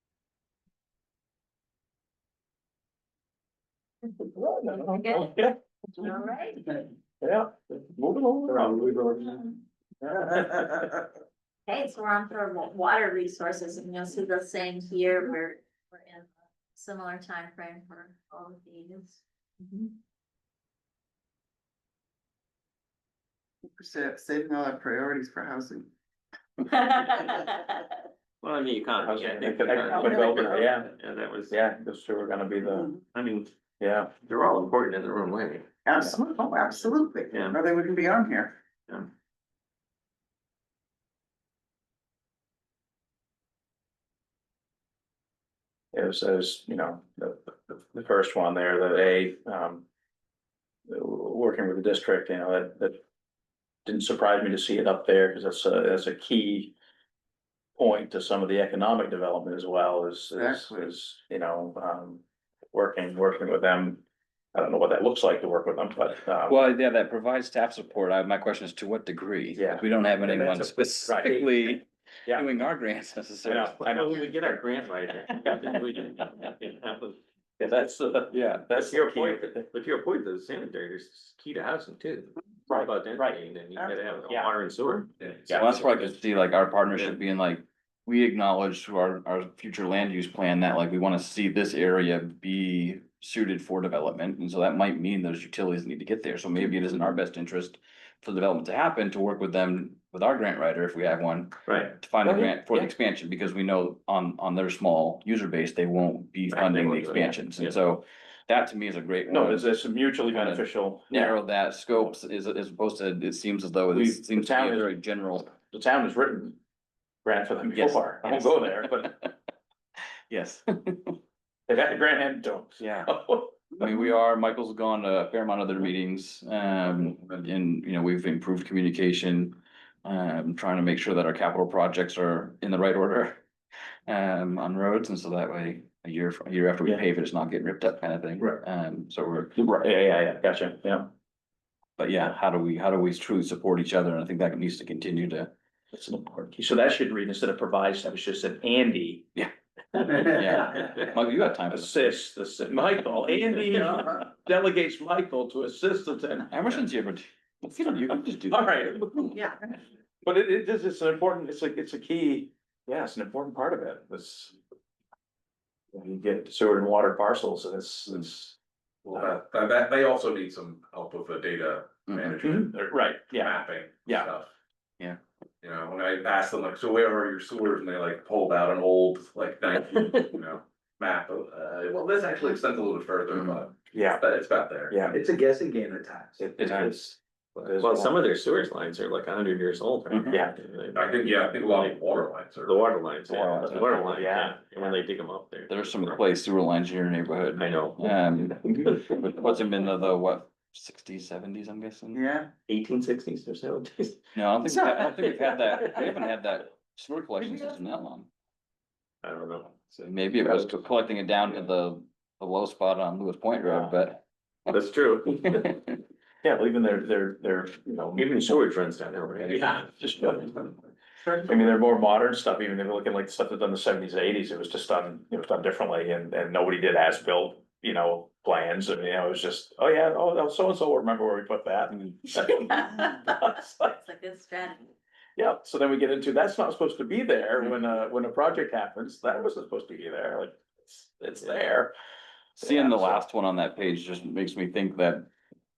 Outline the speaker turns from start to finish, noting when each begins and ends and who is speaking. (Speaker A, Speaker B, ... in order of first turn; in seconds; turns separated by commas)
Speaker A: 4.2-5.5, Speaker B: 4.7-5.3, Speaker B: 6.0-6.8, Speaker A: 7.2-9.0, Speaker C: 8.8-9.2, Speaker A: 10.0-10.9, Speaker B: 11.7-19.2, Speaker C: 23.8-25.9, Speaker B: 26.6-27.9, Speaker D: 28.4-31.6, Speaker A: 29.0-30.9, Speaker C: 29.9-30.4, Speaker A: 31.5-32.9, Speaker D: 33.1-33.5, Speaker A: 33.8-34.1, Speaker D: 34.2-35.7, Speaker C: 35.9-38.6, Speaker D: 37.3-37.6, Speaker A: 45.9-49.8, Speaker A: 50.9-53.0, Speaker A: 53.8-56.7, Speaker A: 57.8-64.0, Speaker C: 60.4-60.9, Speaker A: 64.5-66.6, Speaker E: 66.5-73.9, Speaker A: 69.5-70.5, Speaker D: 70.2-71.4, Speaker A: 71.0-71.4, Speaker A: 73.4-74.6, Speaker D: 73.9-77.2, Speaker A: 77.6-79.7, Speaker E: 78.3-78.6, Speaker D: 78.4-86.1, Speaker A: 82.7-83.4, Speaker E: 85.5-109.7, Speaker D: 101.7-101.9, Speaker A: 102.2-102.9, Speaker D: 106.5-107.8, Speaker A: 106.6-107.3, Speaker A: 109.3-111.3, Speaker E: 110.2-115.5, Speaker A: 113.9-114.9, Speaker A: 115.5-116.6, Speaker A: 117.2-119.1, Speaker E: 117.7-119.3, Speaker E: 120.3-121.2, Speaker A: 121.7-123.7, Speaker E: 122.8-123.1, Speaker E: 123.8-133.4, Speaker E: 134.1-139.6, Speaker A: 139.5-141.1, Speaker E: 142.0-145.5, Speaker A: 145.9-149.2, Speaker E: 150.1-152.2, Speaker A: 150.3-150.8, Speaker A: 151.7-156.8, Speaker E: 156.5-159.3, Speaker A: 158.4-159.4, Speaker A: 160.2-164.6, Speaker A: 165.9-168.6, Speaker F: 169.0-174.5, Speaker E: 172.1-172.4, Speaker A: 172.4-174.3, Speaker F: 175.6-186.5, Speaker E: 183.3-183.6, Speaker A: 183.9-184.2, Speaker A: 184.9-185.2, Speaker A: 186.4-188.2, Speaker D: 187.6-191.7, Speaker F: 190.9-192.8, Speaker D: 192.6-196.2, Speaker A: 193.3-194.8, Speaker E: 195.7-202.2, Speaker D: 197.6-199.2, Speaker C: 202.1-202.5, Speaker D: 202.7-204.2, Speaker E: 204.3-208.3, Speaker D: 209.2-210.7, Speaker E: 210.0-214.7, Speaker D: 214.7-215.8, Speaker A: 216.4-218.6, Speaker D: 218.2-220.6, Speaker A: 219.4-220.7, Speaker A: 221.4-233.9, Speaker B: 232.4-234.9, Speaker A: 235.3-241.9, Speaker A: 242.6-243.2, Speaker E: 242.6-245.3